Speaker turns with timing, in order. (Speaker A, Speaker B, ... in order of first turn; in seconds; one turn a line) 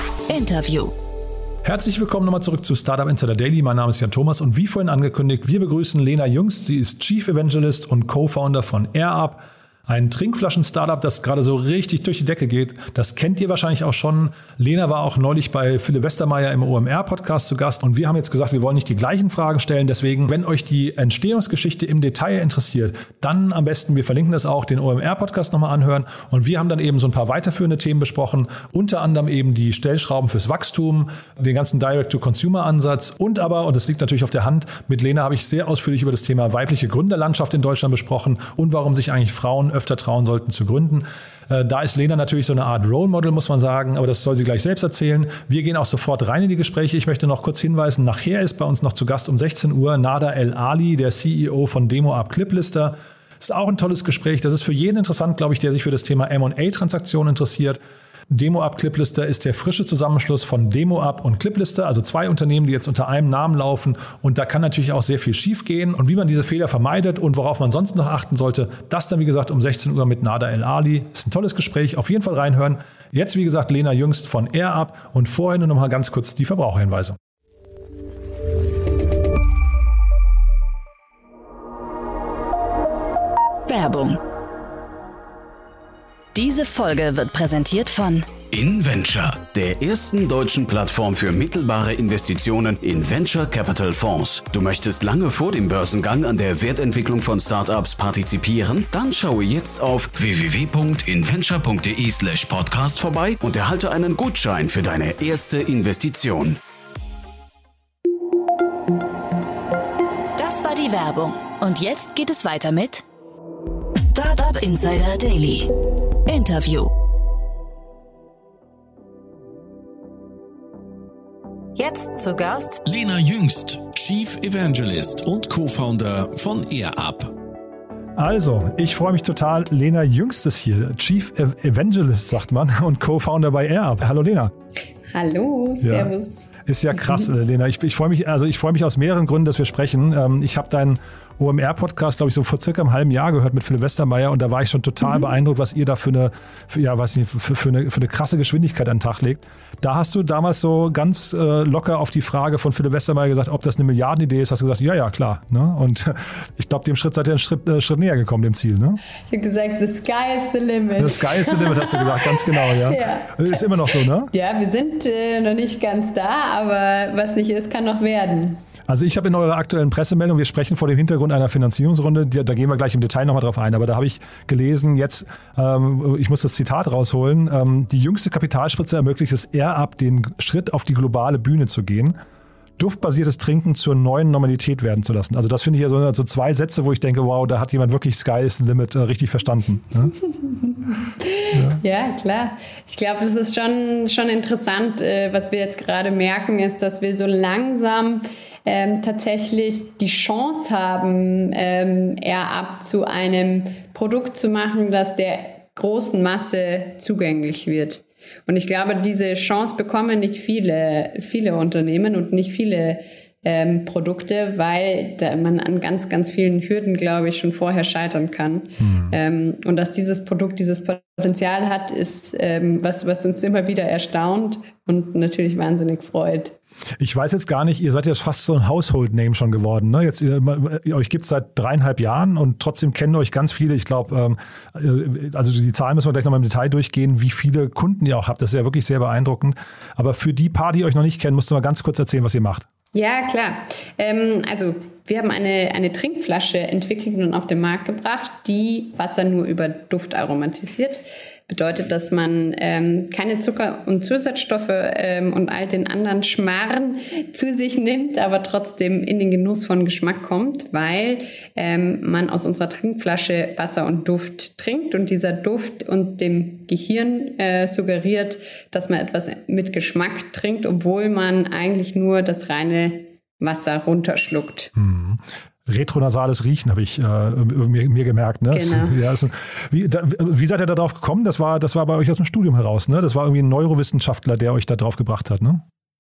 Speaker A: 0.3-0.9
Speaker B: 1.6-57.8
Speaker B: 58.3-77.2
Speaker A: 83.7-84.2
Speaker A: 86.3-88.3
Speaker C: 88.5-106.6
Speaker A: 110.4-113.0
Speaker A: 114.0-115.7
Speaker A: 116.3-116.9
Speaker A: 121.8-122.8
Speaker D: 122.8-127.3
Speaker B: 128.2-134.5
Speaker E: 135.1-136.5
Speaker B: 135.8-136.1
Speaker B: 136.7-159.0
Speaker E: 159.3-168.6
Speaker B: 161.0-164.3
Speaker B: 168.9-182.2
Speaker B: 182.8-190.2
Speaker E: 190.4-226.6
Speaker B: 191.5-191.8
Speaker B: 218.8-219.2
Speaker B: 227.0-242.7
Speaker E: 242.9-274.7
Speaker B: 274.8-285.6
Speaker E: 278.5-279.0